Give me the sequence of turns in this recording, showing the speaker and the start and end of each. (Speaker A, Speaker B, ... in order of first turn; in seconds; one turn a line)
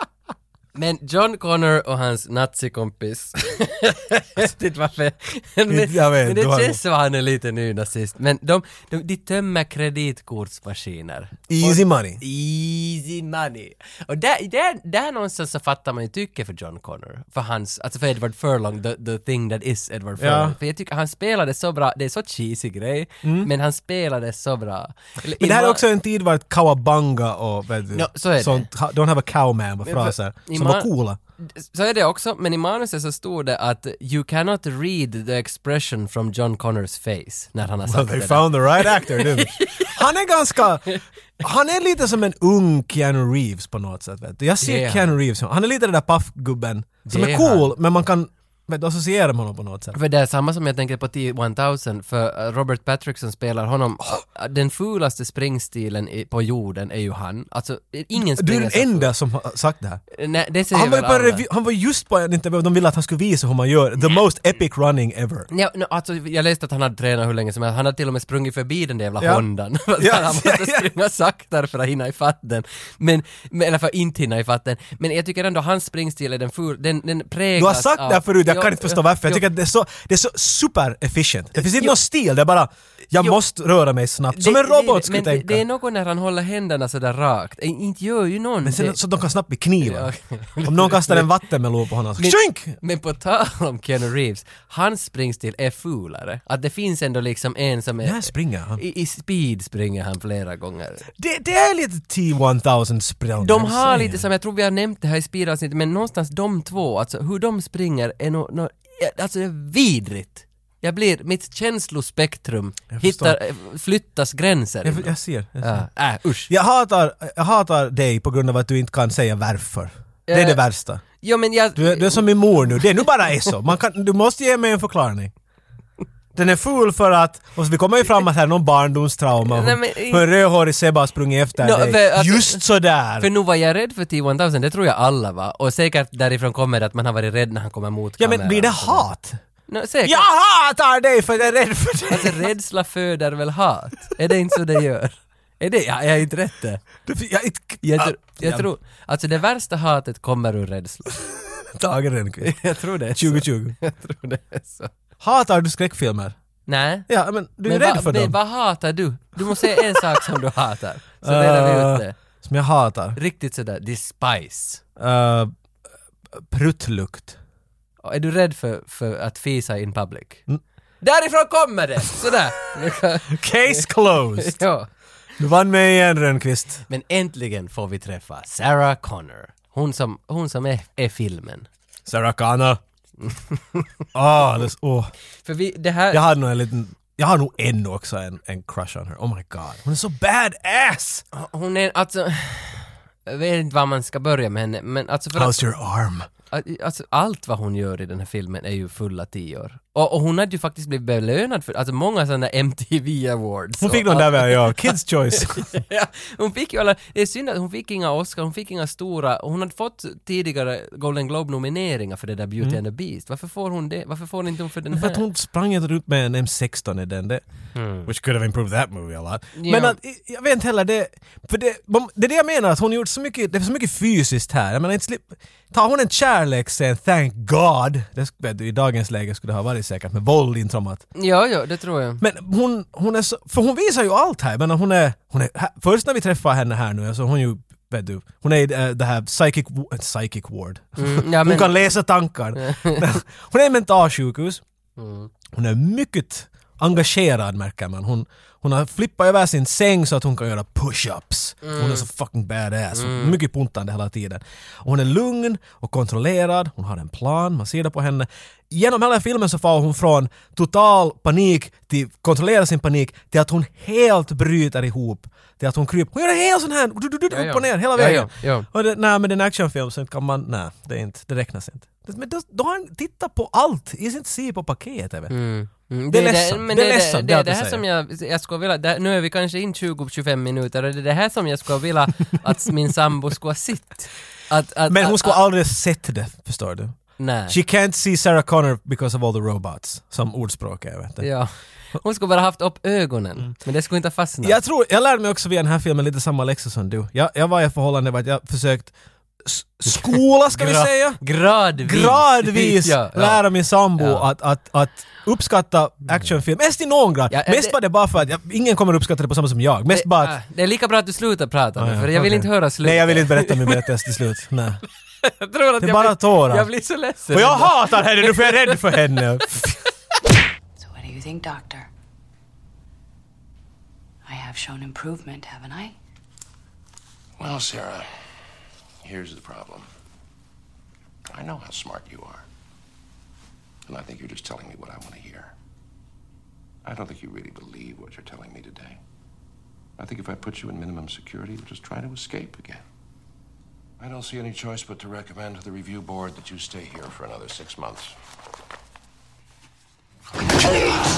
Speaker A: 0.8-25.8
Speaker B: 5.7-6.8
Speaker B: 11.5-12.2
Speaker B: 20.2-20.6
Speaker B: 23.2-23.5
Speaker B: 25.4-31.2
Speaker A: 27.9-28.7
Speaker A: 29.9-30.9
Speaker A: 31.4-40.0
Speaker B: 37.9-50.0
Speaker A: 44.6-45.1
Speaker A: 47.1-47.7
Speaker A: 49.9-59.1
Speaker B: 58.1-60.0
Speaker A: 60.1-61.5
Speaker B: 60.7-65.5
Speaker A: 65.5-79.5
Speaker B: 70.0-70.9
Speaker B: 77.6-85.6
Speaker A: 81.6-82.0
Speaker A: 84.3-89.0
Speaker B: 88.6-90.1
Speaker A: 89.8-91.3
Speaker B: 90.6-92.8
Speaker A: 92.2-101.0
Speaker B: 98.0-98.8
Speaker B: 101.2-104.2
Speaker A: 103.4-116.5
Speaker B: 112.9-113.4
Speaker B: 114.8-115.8
Speaker B: 116.5-121.0
Speaker A: 120.3-122.3
Speaker B: 121.8-125.3
Speaker B: 126.3-133.3
Speaker A: 129.4-130.3
Speaker A: 131.6-132.6
Speaker A: 133.2-139.1
Speaker B: 138.2-139.4
Speaker A: 139.7-140.3
Speaker B: 140.0-142.5
Speaker A: 142.1-146.8
Speaker B: 147.1-148.7
Speaker A: 147.8-151.1
Speaker B: 151.5-152.6
Speaker A: 152.4-154.9
Speaker B: 153.1-153.8
Speaker B: 155.2-156.4
Speaker A: 156.7-157.1
Speaker B: 157.1-158.4
Speaker A: 157.6-162.2
Speaker B: 159.4-160.2
Speaker B: 161.2-163.2
Speaker A: 163.2-164.8
Speaker B: 165.0-165.5
Speaker B: 166.3-167.4
Speaker A: 168.0-170.4
Speaker A: 171.0-174.9
Speaker B: 173.3-174.6
Speaker B: 175.4-176.8
Speaker A: 176.9-181.7
Speaker B: 182.1-182.8
Speaker A: 183.2-183.9
Speaker B: 184.1-185.1
Speaker A: 185.4-186.2
Speaker B: 186.1-191.2
Speaker A: 191.3-195.6
Speaker B: 195.3-196.3
Speaker A: 196.5-215.2
Speaker B: 203.8-205.7
Speaker B: 214.9-217.4
Speaker A: 217.8-218.1
Speaker B: 218.1-231.1
Speaker A: 219.6-220.0
Speaker A: 231.2-232.2
Speaker B: 232.2-244.6
Speaker A: 241.0-241.8
Speaker A: 242.6-243.1
Speaker A: 245.0-245.3
Speaker B: 245.5-275.3
Speaker A: 251.6-252.1
Speaker A: 252.9-253.4
Speaker A: 267.3-268.7
Speaker A: 275.3-285.4
Speaker B: 276.1-277.8
Speaker B: 284.9-291.3
Speaker A: 287.2-287.6
Speaker A: 291.2-294.6
Speaker B: 294.4-298.9
Speaker B: 299.4-301.2
Speaker A: 300.5-303.4
Speaker B: 301.8-310.4
Speaker A: 304.0-304.3
Speaker A: 307.3-307.8
Speaker A: 309.9-313.9
Speaker B: 311.8-314.8
Speaker A: 315.2-319.0
Speaker B: 315.8-316.7
Speaker B: 317.3-319.8
Speaker C: 320.8-321.9
Speaker C: 324.3-325.9
Speaker D: 327.4-328.1
Speaker D: 329.0-329.9
Speaker D: 331.3-332.4
Speaker D: 333.9-335.5
Speaker D: 336.9-339.0
Speaker D: 340.0-342.8
Speaker D: 344.0-348.1